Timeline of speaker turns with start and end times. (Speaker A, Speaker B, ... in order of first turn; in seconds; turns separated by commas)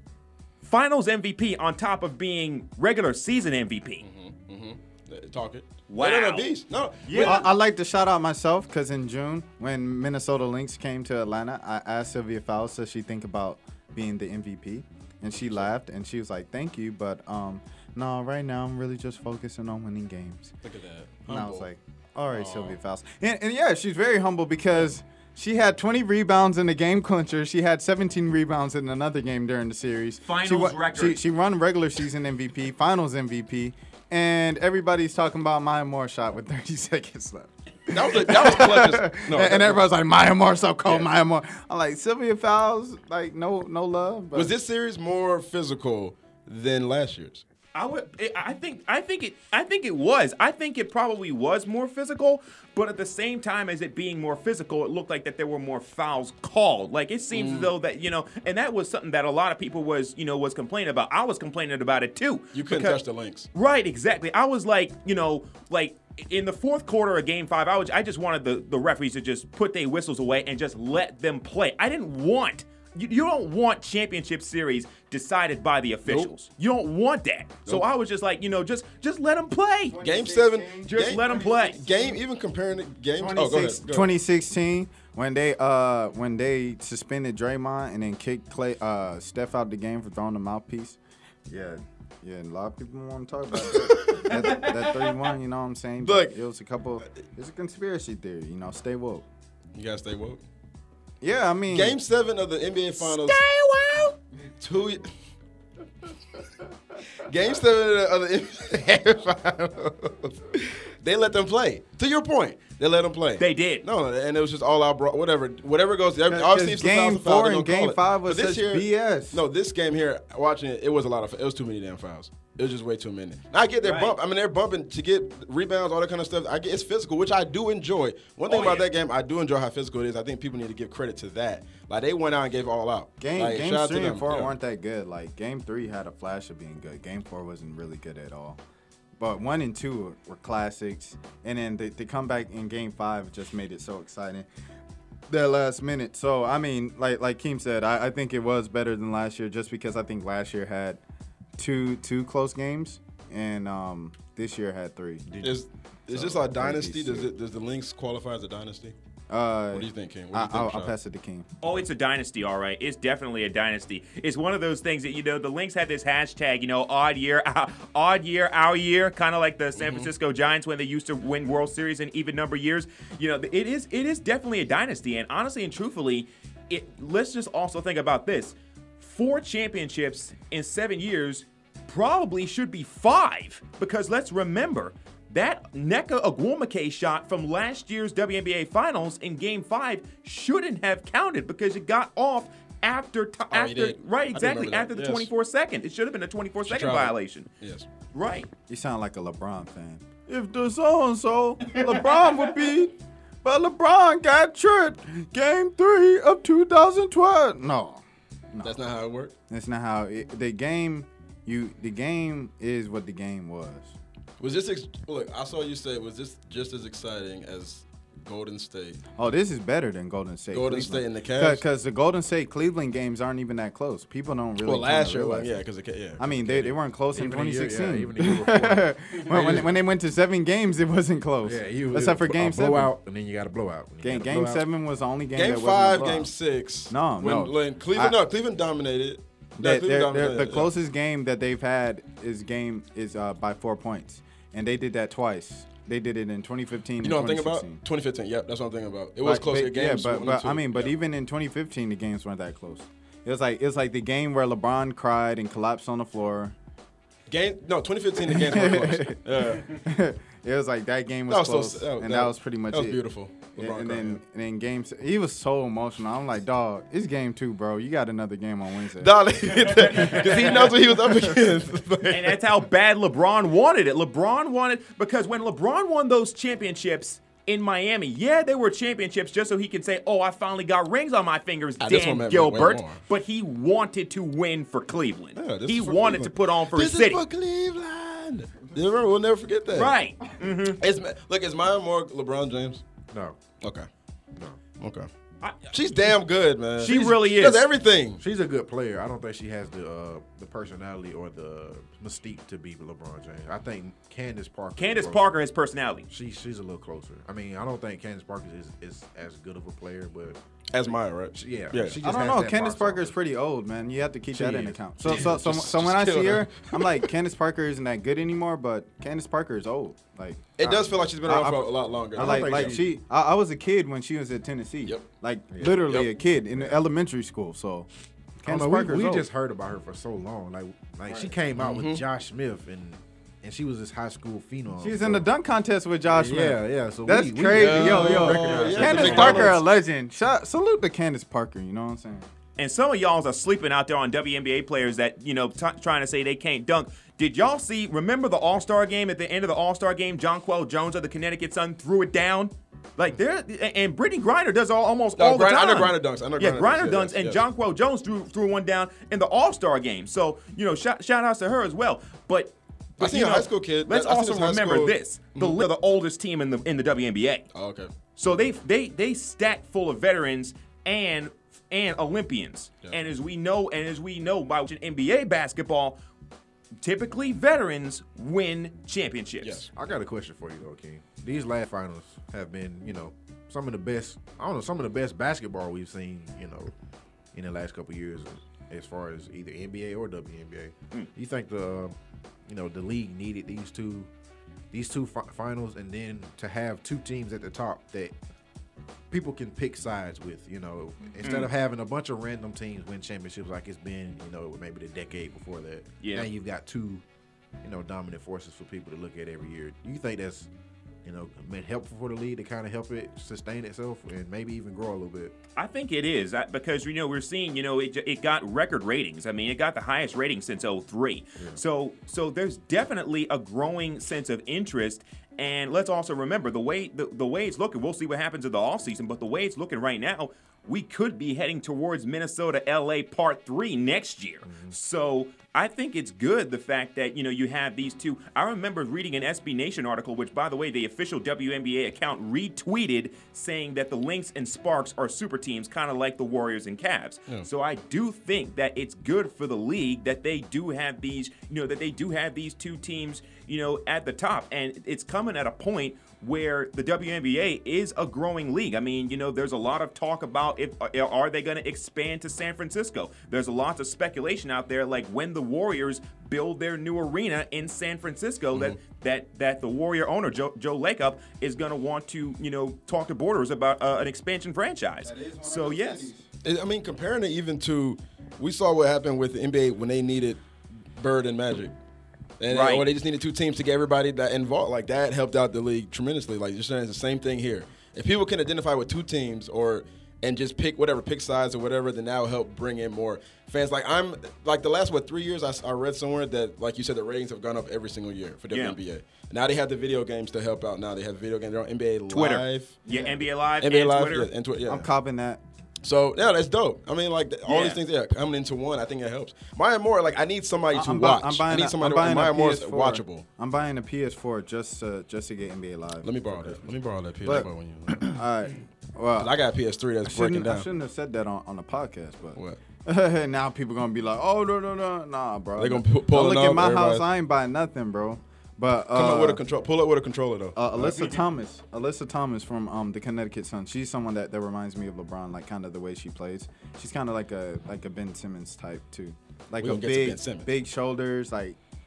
Speaker A: 0.6-4.0, Speaker B: 4.0-7.5, Speaker A: 5.9-6.5, Speaker A: 7.1-7.5, Speaker C: 7.1-20.5, Speaker B: 15.4-15.7, Speaker B: 20.6-21.7, Speaker C: 21.3-44.5, Speaker B: 22.3-22.7, Speaker A: 30.2-31.2, Speaker B: 37.9-39.8, Speaker B: 44.3-47.4, Speaker A: 47.7-63.0, Speaker B: 57.3-57.7, Speaker B: 62.5-63.5, Speaker A: 63.5-80.0, Speaker B: 76.0-76.3, Speaker C: 79.9-82.2, Speaker B: 80.0-84.1, Speaker A: 80.8-82.0, Speaker C: 83.2-99.2, Speaker B: 93.5-94.7, Speaker B: 96.0-96.3, Speaker B: 99.7-100.4, Speaker C: 101.2-102.0, Speaker B: 101.7-103.4, Speaker A: 103.0-104.1, Speaker B: 104.6-105.1, Speaker B: 107.2-134.5, Speaker A: 113.4-113.8, Speaker C: 116.2-119.4, Speaker A: 123.8-124.1, Speaker A: 128.5-128.9, Speaker C: 133.2-138.6, Speaker C: 139.2-144.5, Speaker C: 145.3-151.0, Speaker C: 151.6-155.2, Speaker D: 155.2-155.5, Speaker B: 155.4-158.9, Speaker C: 156.1-157.3, Speaker D: 156.1-156.8, Speaker C: 159.3-161.5, Speaker B: 159.7-160.9, Speaker A: 161.6-197.5, Speaker B: 169.8-170.1, Speaker B: 193.5-195.3, Speaker B: 196.6-197.9, Speaker A: 198.1-198.5, Speaker C: 198.7-208.8, Speaker B: 208.6-209.3, Speaker C: 209.5-213.9, Speaker B: 214.4-219.0, Speaker C: 219.2-225.6, Speaker B: 220.5-221.6, Speaker B: 224.6-226.7, Speaker C: 226.2-232.9, Speaker D: 227.1-229.7, Speaker B: 229.3-229.7, Speaker D: 231.4-234.6, Speaker C: 234.0-236.3, Speaker B: 235.3-240.7, Speaker C: 236.9-238.2, Speaker C: 239.6-247.8, Speaker B: 247.0-250.9, Speaker C: 249.2-256.5, Speaker B: 257.3-259.7, Speaker C: 258.2-263.0, Speaker B: 261.3-264.2, Speaker C: 263.6-270.7, Speaker B: 269.0-272.4, Speaker A: 272.1-287.2, Speaker B: 281.8-283.0, Speaker B: 285.4-289.9, Speaker A: 289.7-290.8, Speaker B: 290.8-292.8, Speaker D: 293.1-293.4, Speaker B: 293.6-293.9, Speaker B: 294.8-295.1, Speaker A: 295.4-295.9, Speaker B: 295.7-298.2, Speaker A: 296.8-297.6, Speaker D: 298.2-305.3, Speaker A: 304.8-306.1, Speaker D: 306.1-310.4, Speaker B: 310.7-312.0, Speaker D: 311.4-313.1, Speaker C: 312.0-329.3, Speaker D: 314.3-315.5, Speaker B: 315.0-317.0, Speaker B: 320.6-322.8, Speaker D: 322.1-322.9, Speaker D: 325.5-325.9, Speaker D: 326.5-326.8, Speaker D: 328.4-335.2, Speaker B: 331.1-332.0, Speaker C: 334.8-342.3, Speaker D: 336.1-339.6, Speaker B: 337.5-339.6, Speaker A: 342.6-367.5, Speaker B: 355.2-357.4, Speaker B: 363.0-365.7, Speaker B: 367.5-367.9, Speaker A: 368.1-376.0, Speaker A: 376.8-379.6, Speaker B: 379.4-379.7, Speaker D: 379.7-386.7, Speaker D: 387.3-391.9, Speaker D: 392.5-394.1, Speaker D: 394.7-398.1, Speaker D: 399.1-407.0, Speaker A: 406.0-406.3, Speaker D: 407.6-410.5, Speaker D: 411.0-415.3, Speaker A: 415.6-476.1, Speaker D: 434.4-434.8, Speaker C: 475.0-476.2, Speaker B: 476.4-480.4, Speaker B: 481.0-481.7, Speaker B: 482.4-502.8, Speaker A: 482.5-482.9, Speaker A: 498.5-498.8, Speaker A: 502.1-504.3, Speaker C: 502.9-503.2, Speaker B: 503.6-504.9, Speaker C: 504.6-505.4, Speaker B: 505.8-513.2, Speaker A: 507.4-507.8, Speaker C: 510.7-516.7, Speaker B: 516.0-518.2, Speaker C: 517.2-517.5, Speaker C: 518.0-519.3, Speaker B: 519.2-520.7, Speaker C: 520.0-529.4, Speaker B: 525.6-527.0, Speaker B: 528.9-530.8, Speaker C: 530.5-541.6, Speaker B: 539.6-540.5